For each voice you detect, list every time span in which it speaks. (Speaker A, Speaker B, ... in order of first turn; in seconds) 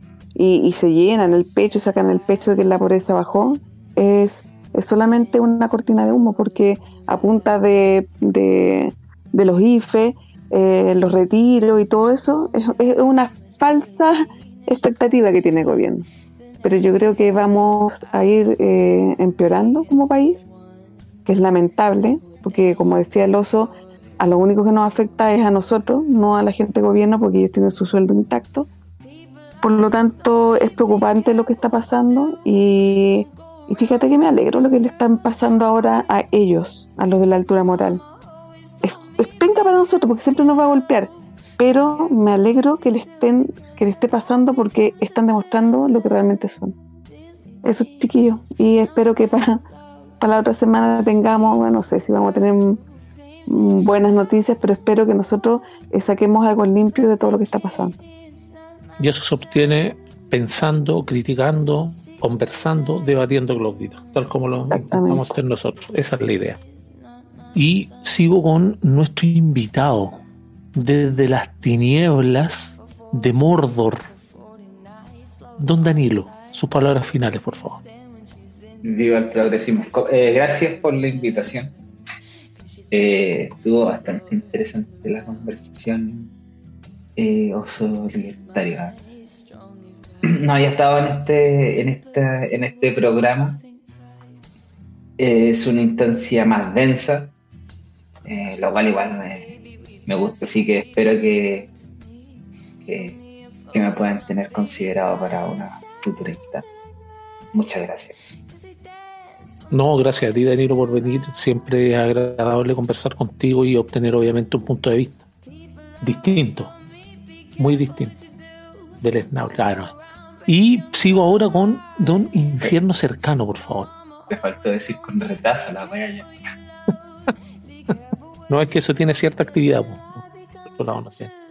Speaker A: 0.3-16.1, 16.6-20.5, 21.3-28.7, 29.6-38.0, 38.8-46.7, 47.6-49.6, 50.2-52.8, 53.5-58.0, 64.7-65.2
Speaker B: 59.0-66.6, 67.5-70.2, 70.7-74.0, 75.6-77.8, 109.7-115.2, 116.0-116.8, 117.6-118.2, 119.0-119.9, 120.5-123.9, 128.5-131.3
Speaker C: 78.8-81.8, 82.9-86.3, 87.2-89.0, 90.2-93.6, 95.2-97.3, 98.2-101.7, 102.9-103.2, 103.7-106.8, 107.5-108.3, 124.3-126.3